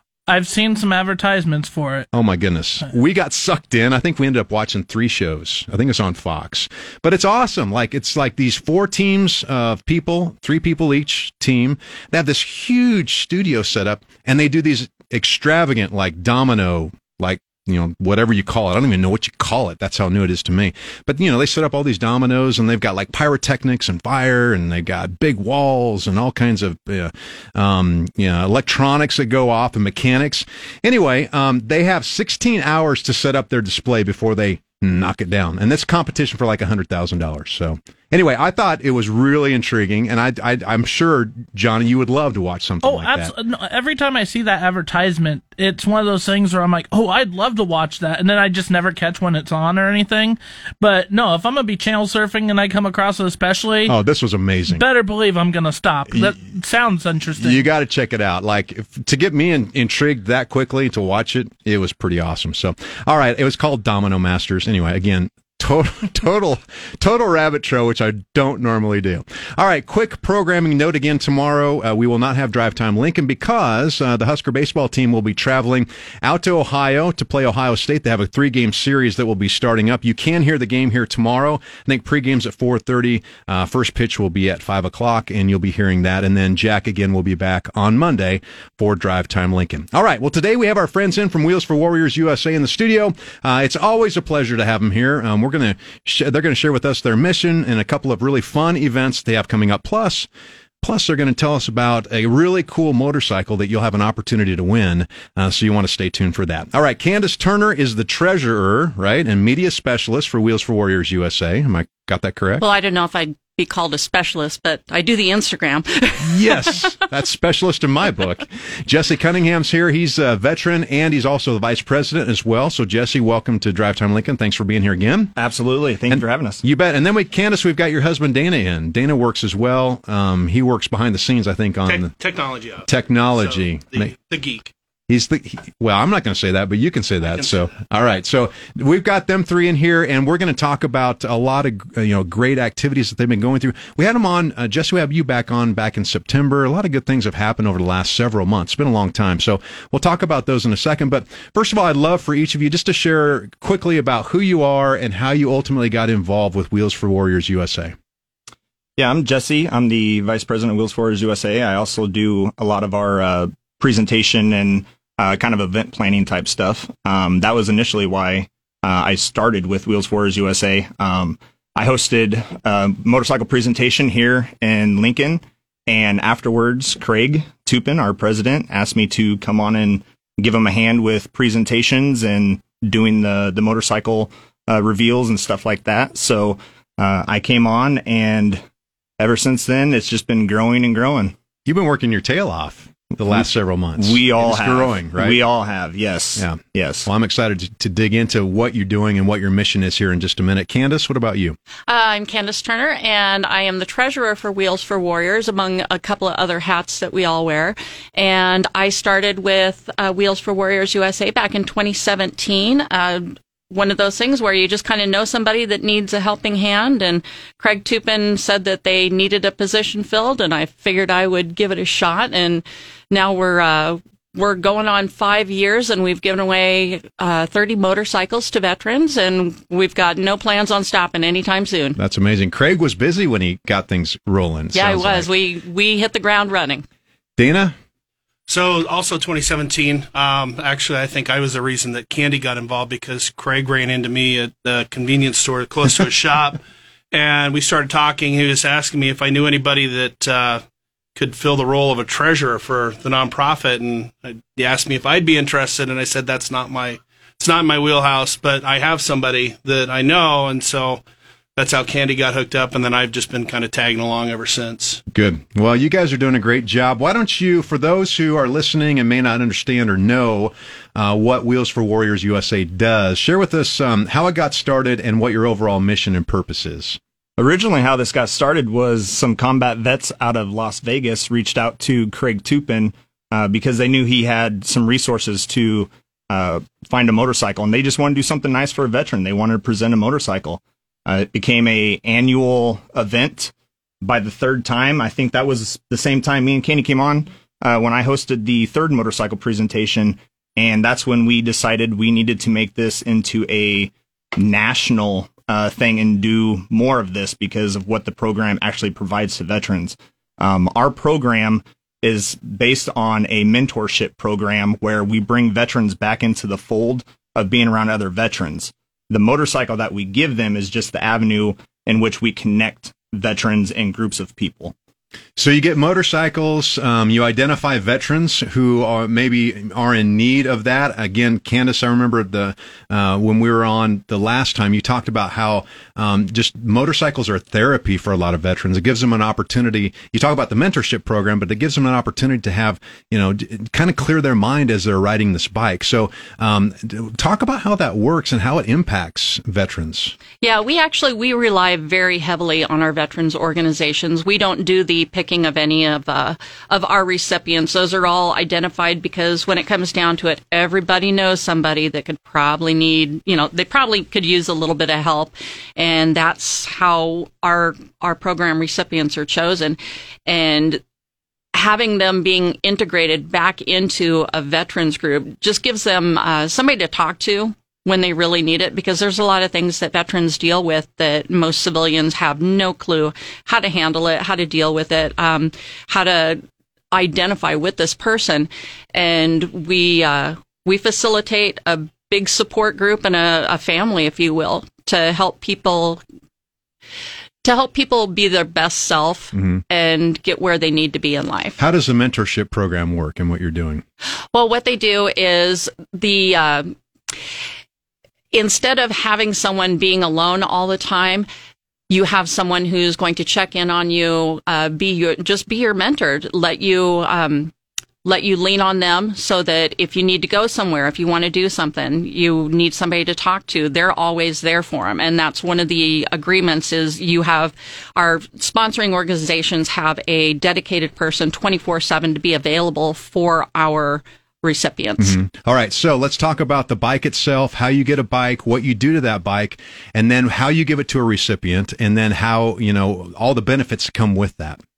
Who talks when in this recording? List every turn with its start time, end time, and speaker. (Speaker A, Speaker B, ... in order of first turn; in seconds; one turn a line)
Speaker A: 0.3-2.1
Speaker B: 2.1-43.3
Speaker A: 42.8-54.0
Speaker B: 53.9-54.8
Speaker A: 54.7-57.6
Speaker B: 56.1-56.4
Speaker B: 57.4-100.3
Speaker B: 100.8-112.6
Speaker C: 112.6-116.8
Speaker B: 116.2-125.3
Speaker D: 125.3-126.6
Speaker B: 126.1-132.1
Speaker E: 131.8-134.7
Speaker B: 132.8-134.1
Speaker B: 135.1-157.9
Speaker E: 137.3-137.7
Speaker D: 159.0-188.6
Speaker D: 189.2-191.3
Speaker B: 191.7-195.4
Speaker D: 194.0-197.1
Speaker B: 196.4-201.6
Speaker C: 201.9-232.0
Speaker B: 232.0-235.3
Speaker C: 234.7-236.8
Speaker B: 237.4-237.8
Speaker E: 238.5-246.6
Speaker E: 247.1-250.6
Speaker E: 251.2-261.0
Speaker E: 261.6-265.0
Speaker B: 265.1-277.0
Speaker D: 277.4-324.7
Speaker B: 325.4-350.1
Speaker C: 350.4-370.8
Speaker C: 371.5-386.4
Speaker C: 386.9-396.0
Speaker C: 397.4-401.6
Speaker B: 399.3-399.6
Speaker B: 401.6-403.8
Speaker C: 404.3-406.7
Speaker C: 408.3-411.3
Speaker C: 411.9-417.5
Speaker C: 418.0-435.2
Speaker B: 435.0-444.6